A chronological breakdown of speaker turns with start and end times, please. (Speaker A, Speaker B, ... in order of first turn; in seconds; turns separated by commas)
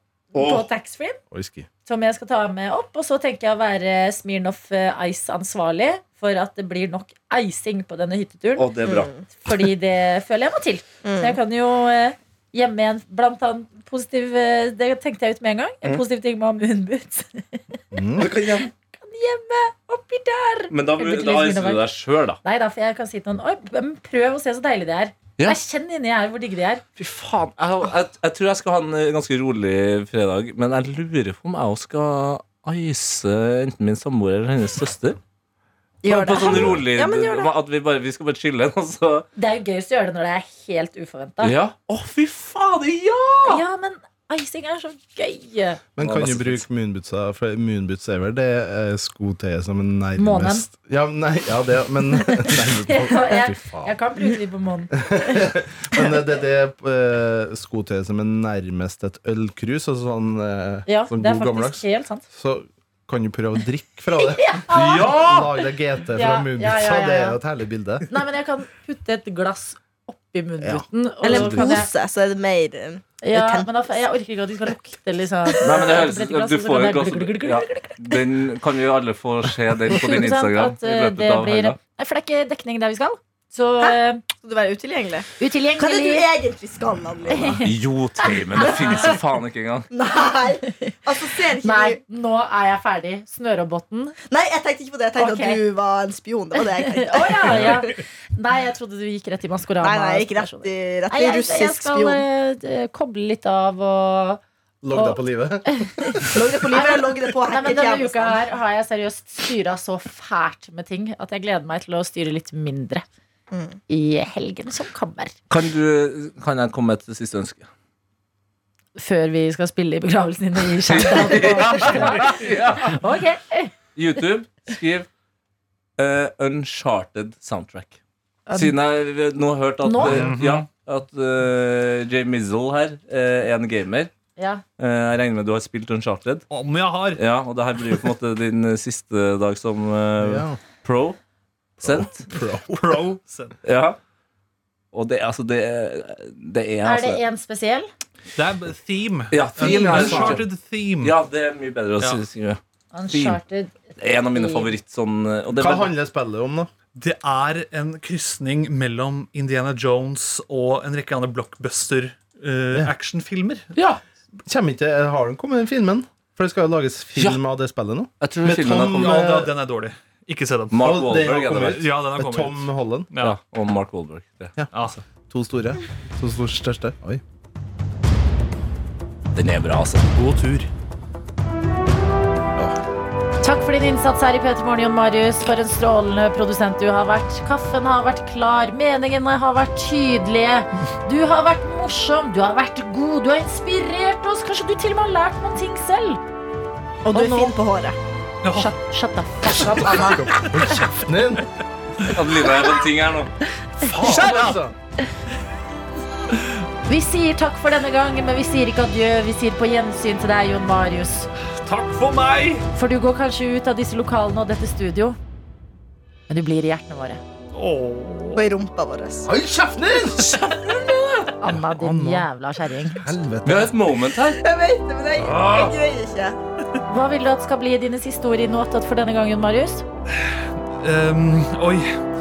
Speaker A: 0.3-1.2, Speaker B: 0.3-0.7, Speaker C: 1.3-1.7, Speaker A: 1.9-8.7, Speaker B: 8.6-9.1, Speaker D: 8.8-9.2, Speaker A: 9.3-17.8, Speaker D: 11.0-11.4, Speaker C: 17.9-18.3, Speaker B: 18.2-18.7, Speaker A: 18.9-21.9, Speaker B: 20.7-22.4, Speaker A: 22.4-26.8, Speaker B: 27.0-35.2, Speaker D: 36.0-37.5, Speaker B: 36.1-39.3, Speaker C: 36.4-36.9, Speaker A: 39.4-41.5, Speaker B: 41.4-43.6, Speaker A: 43.5-45.8, Speaker C: 46.0-54.0, Speaker B: 46.0-46.6, Speaker A: 50.2-50.7, Speaker A: 52.4-55.0, Speaker C: 55.0-68.0, Speaker A: 60.9-62.2, Speaker A: 64.2-65.1, Speaker B: 64.7-65.5, Speaker A: 66.1-67.4, Speaker A: 68.1-71.9, Speaker C: 70.6-71.5, Speaker D: 71.2-73.7, Speaker A: 73.2-78.2, Speaker B: 75.6-81.8, Speaker A: 79.9-84.2, Speaker D: 83.8-87.6, Speaker A: 85.4-86.3, Speaker A: 87.3-87.7, Speaker B: 87.6-89.9, Speaker A: 88.2-89.1, Speaker D: 88.6-89.1, Speaker D: 89.9-92.0, Speaker A: 91.6-94.2, Speaker D: 94.3-97.9, Speaker A: 95.2-95.6, Speaker A: 96.9-104.4, Speaker D: 99.8-102.2, Speaker C: 104.8-106.3, Speaker A: 104.9-113.0, Speaker D: 106.3-108.4, Speaker D: 113.5-113.8, Speaker A: 113.9-115.3, Speaker B: 115.5-117.7, Speaker A: 119.0-123.7, Speaker B: 120.9-123.0, Speaker E: 121.5-122.5, Speaker B: 124.0-125.1, Speaker B: 126.0-128.0, Speaker B: 128.6-134.1, Speaker A: 129.8-130.3, Speaker E: 130.0-130.7, Speaker A: 134.4-134.6, Speaker B: 134.8-136.4, Speaker E: 136.5-137.2, Speaker B: 137.2-141.2, Speaker C: 140.2-140.6, Speaker C: 141.8-143.1, Speaker B: 141.8-142.2, Speaker E: 142.7-143.6, Speaker B: 143.6-144.0, Speaker B: 144.9-147.2, Speaker A: 146.8-147.9, Speaker E: 148.3-151.2, Speaker B: 149.3-150.5, Speaker C: 149.6-150.4, Speaker B: 151.0-152.6, Speaker A: 152.9-154.7, Speaker B: 153.1-153.4, Speaker B: 154.0-155.9, Speaker C: 155.5-156.7, Speaker E: 156.9-163.7, Speaker B: 163.7-164.0, Speaker C: 164.4-169.5, Speaker B: 168.2-169.3, Speaker E: 168.8-171.0, Speaker B: 170.7-171.8, Speaker C: 170.8-173.1, Speaker E: 171.6-173.4, Speaker B: 173.2-174.5, Speaker C: 174.6-177.2, Speaker E: 174.7-175.1, Speaker B: 179.3-180.1, Speaker E: 180.1-180.7, Speaker A: 183.4-196.2, Speaker D: 197.0-198.0, Speaker A: 197.1-197.6, Speaker E: 198.4-198.7, Speaker A: 198.5-200.3, Speaker E: 199.5-199.8, Speaker C: 199.9-201.5, Speaker B: 202.1-203.3, Speaker C: 203.8-204.7, Speaker E: 204.0-204.6, Speaker A: 206.9-211.3, Speaker E: 211.6-212.7, Speaker A: 212.7-215.2, Speaker A: 216.3-217.2, Speaker E: 217.5-218.4, Speaker D: 218.4-219.3, Speaker C: 219.2-220.4, Speaker E: 220.2-220.8, Speaker D: 220.6-220.9, Speaker A: 221.4-223.1, Speaker C: 221.4-222.3, Speaker C: 222.9-223.8, Speaker B: 223.4-224.4, Speaker D: 224.4-226.4, Speaker B: 225.2-225.7, Speaker A: 226.9-229.8, Speaker E: 230.1-232.0